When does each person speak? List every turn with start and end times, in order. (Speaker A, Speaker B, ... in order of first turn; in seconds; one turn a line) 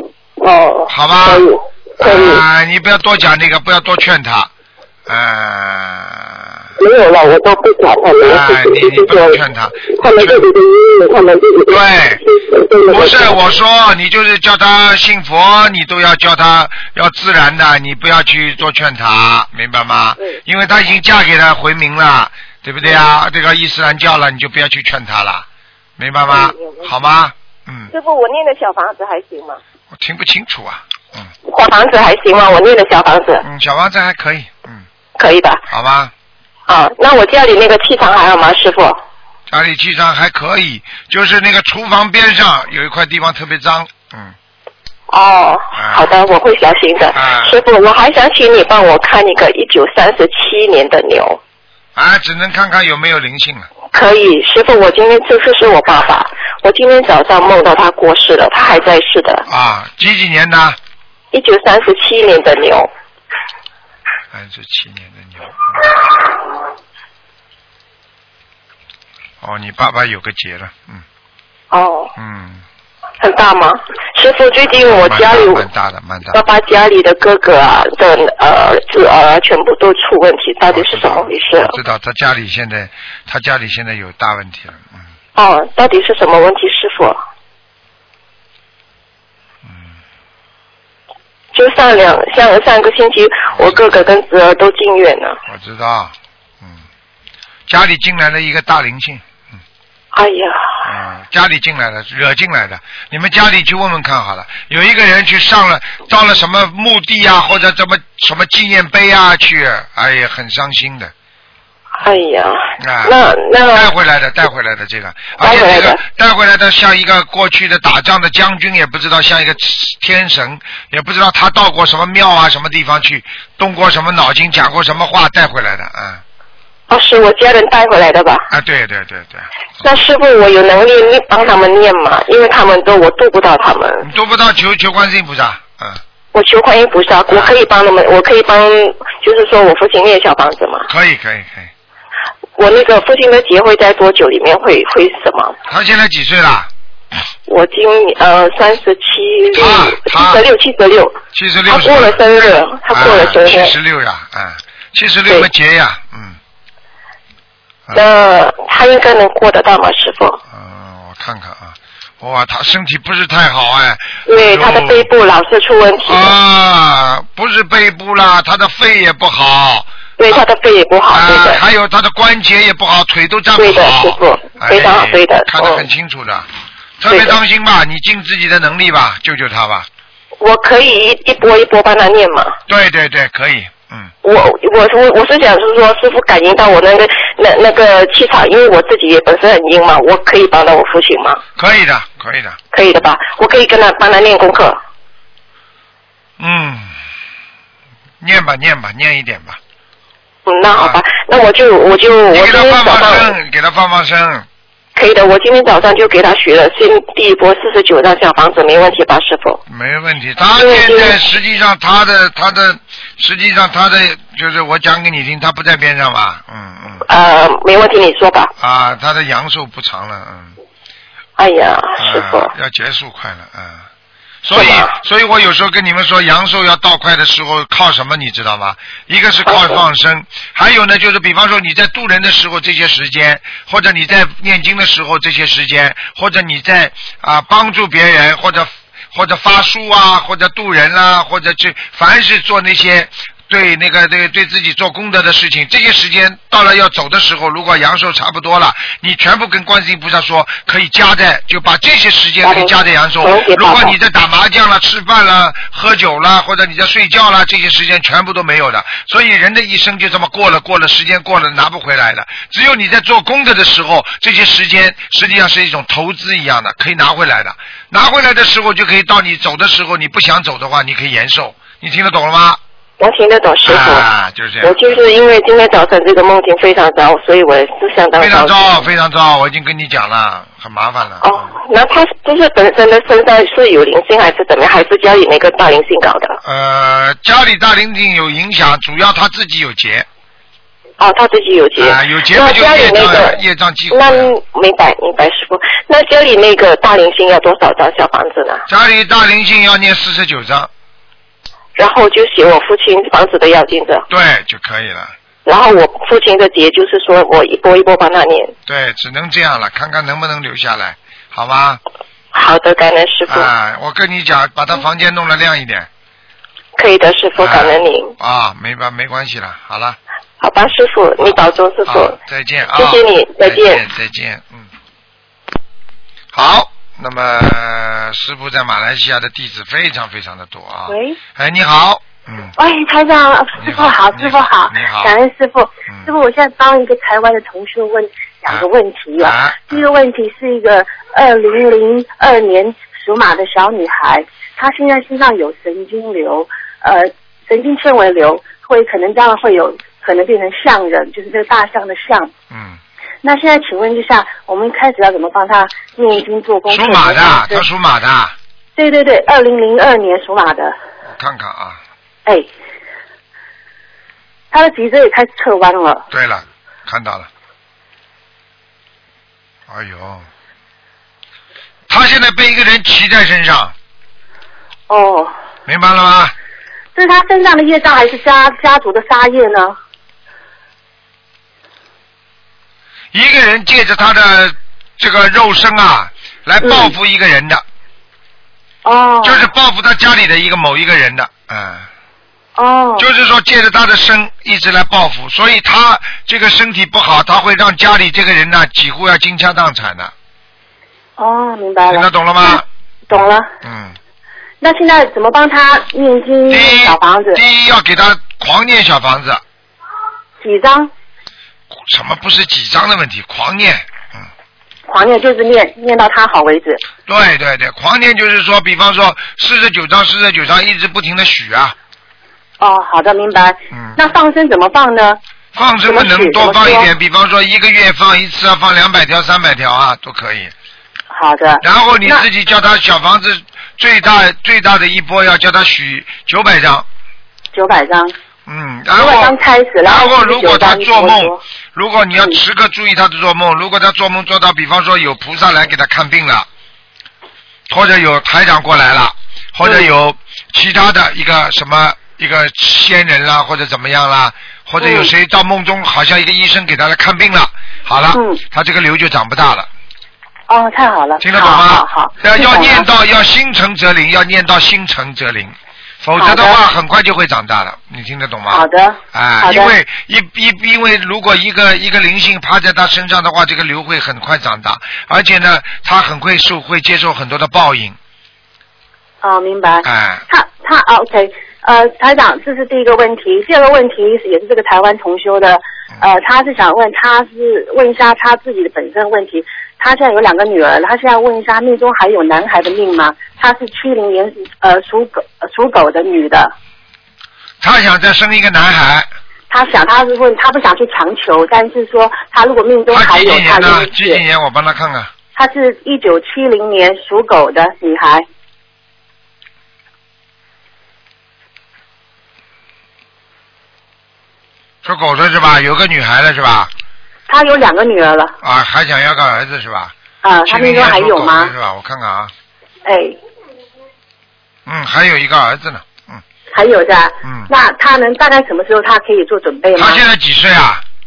Speaker A: 0.4-2.4
Speaker B: 0.9-1.5
Speaker B: 2.0-4.5
Speaker B: 5.1-6.6
Speaker A: 6.8-9.4
Speaker B: 8.2-10.5
Speaker A: 10.0-11.8
Speaker B: 11.7-12.2
Speaker A: 12.5-13.4
Speaker B: 12.9-25.4
Speaker B: 26.0-27.9
Speaker A: 26.2-26.9
Speaker A: 27.9-29.6
Speaker B: 29.9-31.3
Speaker A: 31.4-33.4
Speaker B: 33.4-34.9
Speaker A: 35.2-35.6
Speaker B: 35.7-36.1
Speaker A: 36.7-39.0
Speaker B: 39.5-44.4
Speaker A: 45.1-51.4
Speaker B: 45.7-46.1
Speaker B: 47.1-47.6
Speaker B: 52.0-53.7
Speaker A: 53.9-59.4
Speaker B: 59.5-60.8
Speaker A: 61.3-62.9
Speaker B: 64.3-65.9
Speaker B: 69.4-71.0
Speaker A: 71.7-72.1
Speaker B: 72.2-72.6
Speaker A: 73.2-75.7
Speaker B: 74.8-76.4
Speaker A: 76.3-81.8
Speaker B: 80.7-85.0
Speaker A: 85.3-87.2
Speaker B: 89.6-89.9
Speaker A: 91.5-95.4
Speaker B: 93.5-94.1
Speaker B: 95.5-96.8
Speaker B: 97.7-99.2
Speaker A: 100.1-100.8
Speaker B: 100.8-111.1
Speaker A: 112.0-113.9
Speaker B: 112.8-113.1
Speaker B: 113.7-126.2
Speaker A: 115.4-116.0
Speaker A: 126.9-128.5
Speaker B: 128.5-129.5
Speaker A: 129.8-134.1
Speaker B: 134.0-136.0
Speaker A: 136.3-140.9
Speaker B: 137.3-137.6
Speaker B: 140.9-141.7
Speaker A: 142.6-145.6
Speaker B: 145.7-146.7
Speaker A: 147.5-153.7
Speaker B: 149.6-150.4
Speaker B: 151.3-152.2
Speaker B: 152.9-156.4
Speaker A: 157.9-160.4
Speaker B: 160.5-165.1
Speaker A: 164.3-166.3
Speaker B: 166.0-169.9
Speaker A: 170.2-171.6
Speaker B: 171.1-176.5
Speaker A: 173.6-175.9
Speaker B: 177.0-179.9
Speaker A: 177.1-177.4
Speaker A: 180.4-182.6
Speaker B: 182.7-184.1
Speaker A: 184.2-191.4
Speaker B: 191.6-192.6
Speaker A: 192.7-194.8
Speaker B: 196.4-197.0
Speaker B: 198.2-199.6
Speaker A: 200.4-203.3
Speaker B: 200.7-201.0
Speaker B: 202.3-204.4
Speaker A: 204.9-209.6
Speaker B: 209.7-217.1
Speaker A: 210.6-211.2
Speaker A: 217.1-218.5
Speaker B: 218.6-220.6
Speaker A: 221.4-222.5
Speaker B: 222.0-223.9
Speaker B: 224.4-272.6
Speaker A: 224.5-224.9
Speaker A: 229.5-229.8
Speaker A: 252.4-253.9
Speaker A: 273.0-274.1
Speaker B: 273.6-275.0
Speaker A: 274.6-278.9
Speaker B: 278.2-281.5
Speaker A: 281.2-286.4
Speaker B: 286.4-290.1
Speaker A: 291.0-293.4
Speaker B: 291.8-294.3
Speaker A: 293.9-298.6
Speaker B: 298.7-300.7
Speaker A: 301.8-304.1
Speaker B: 304.1-305.1
Speaker A: 305.4-308.5
Speaker B: 308.7-311.8
Speaker A: 312.3-313.5
Speaker B: 313.3-315.9
Speaker A: 316.8-318.1
Speaker B: 317.4-320.0
Speaker A: 320.4-322.1
Speaker B: 321.9-324.7
Speaker A: 322.8-323.8
Speaker B: 326.3-332.5
Speaker C: 330.9-331.2
Speaker C: 332.6-352.3
Speaker B: 333.6-335.1
Speaker B: 335.9-336.1
Speaker B: 338.5-339.9
Speaker B: 352.5-352.8
Speaker C: 353.2-357.6
Speaker B: 356.7-358.4
Speaker C: 358.8-360.8
Speaker B: 361.0-361.8
Speaker C: 364.5-366.0
Speaker B: 366.1-367.3
Speaker B: 369.7-370.2
Speaker B: 371.9-373.7
Speaker C: 374.9-375.3
Speaker B: 375.7-376.3
Speaker C: 376.9-379.8
Speaker B: 383.1-387.6
Speaker C: 386.6-386.9
Speaker C: 388.8-389.5
Speaker B: 389.2-391.9
Speaker C: 392.6-393.1
Speaker B: 393.0-400.1
Speaker C: 401.2-403.5
Speaker B: 401.9-403.9
Speaker C: 404.6-407.4
Speaker B: 406.5-409.4
Speaker C: 410.4-410.9
Speaker B: 411.7-414.3
Speaker C: 414.9-416.8
Speaker B: 417.1-421.7
Speaker C: 422.6-425.2
Speaker B: 423.7-424.0
Speaker B: 425.5-430.5
Speaker C: 425.9-426.9
Speaker C: 431.1-432.2
Speaker B: 431.6-436.9
Speaker C: 437.5-438.1
Speaker B: 438.5-446.5
Speaker C: 438.9-441.4
Speaker B: 447.7-459.7
Speaker C: 449.6-449.9
Speaker C: 454.8-455.1
Speaker C: 458.1-458.4
Speaker C: 460.5-462.9
Speaker B: 461.2-477.9
Speaker C: 466.2-466.6
Speaker C: 468.5-469.7
Speaker C: 479.2-496.5
Speaker B: 479.8-480.2
Speaker B: 497.6-499.1
Speaker C: 499.5-504.2
Speaker B: 502.9-505.1
Speaker C: 505.4-508.2
Speaker B: 514.8-516.7
Speaker C: 517.3-518.3
Speaker B: 518.4-519.9
Speaker C: 520.2-521.5
Speaker B: 520.4-522.3
Speaker C: 522.9-523.2
Speaker B: 524.6-526.2
Speaker C: 526.5-530.0
Speaker B: 527.2-527.5
Speaker B: 529.7-530.8